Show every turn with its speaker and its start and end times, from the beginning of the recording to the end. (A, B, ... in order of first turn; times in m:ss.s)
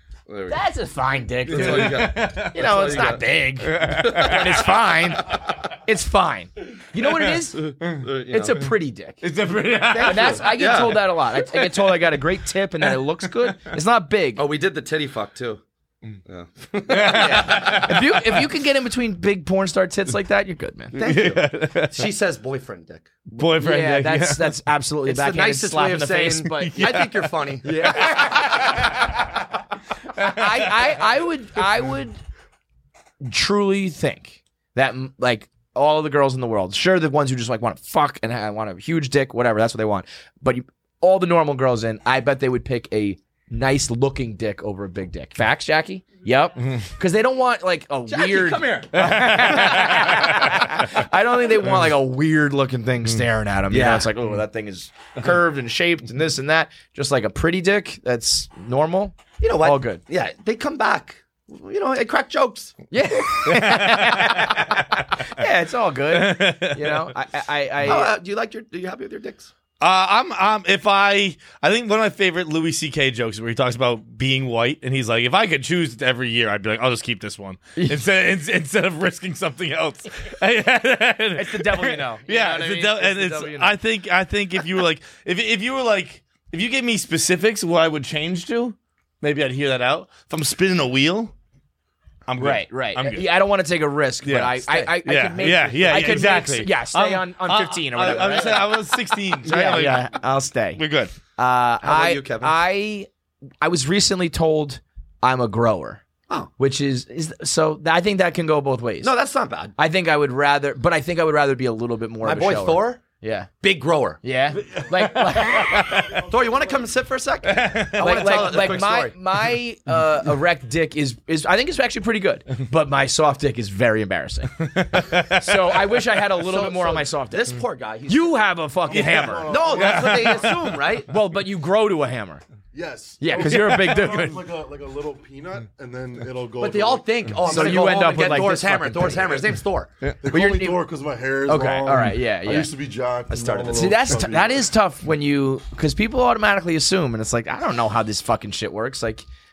0:00.3-0:00.6 A
0:00.5-0:09.2 B
0:01.5-0:03.2 A
0:01.5-0:04.7 C
0:03.9-0:04.6 A
0:07.0-0:08.7 C
0:07.8-0:08.6 A
0:09.2-0:10.8 C
0:09.8-0:11.1 A
0:10.0-0:14.4 B
0:11.4-0:12.1 C
0:14.4-0:15.6 A
0:16.2-0:18.0 A
0:16.9-0:18.4 C
0:16.9-0:21.0 B
0:20.9-0:22.0 C
0:20.9-0:23.1 A
0:23.3-0:27.1 B
0:23.4-0:24.6 C
0:25.0-0:28.5 A
0:26.6-0:29.1 C
0:27.6-0:29.1 B
0:30.2-0:31.0 C
0:30.2-0:32.2 B
0:33.2-1:00.0 B
0:48.1-0:50.4 A
0:48.9-0:50.9 C
0:53.7-0:54.1 A
0:59.4-1:02.8 A
1:02.9-1:08.1 B
1:03.4-1:04.7 C
1:06.1-1:07.1 C
1:07.8-1:09.5 A
1:09.8-1:31.3 C
1:21.4-1:23.8 B
1:32.3-1:33.3 C
1:32.4-1:38.8 B
1:34.2-1:40.1 C
1:35.9-1:36.4 A
1:38.3-1:38.6 A
1:39.4-1:40.8 B
1:40.8-1:41.1 C
1:41.4-1:43.1 B
1:41.8-1:42.6 A
1:43.6-1:46.0 B
1:46.6-1:49.1 B
1:49.0-1:49.8 A
1:49.8-1:53.5 B
1:52.2-1:53.0 A
1:53.6-1:54.2 A
1:54.2-1:56.2 B
1:54.7-1:56.0 C
1:55.5-1:56.9 D
1:56.3-1:59.2 A
1:57.4-1:58.8 C
1:58.0-2:09.6 B
2:04.6-2:05.8 C
2:06.4-2:08.4 A
2:08.9-2:10.6 D
2:08.9-2:10.7 C
2:09.5-2:11.1 A
2:11.1-2:12.4 B
2:12.7-2:18.0 D
2:13.2-2:14.5 B
2:13.4-2:14.3 C
2:16.6-2:19.9 A
2:17.4-2:19.4 B
2:20.2-2:24.7 D
2:20.3-2:20.8 B
2:21.5-2:22.7 B
2:23.3-2:24.2 A
2:23.7-2:29.2 B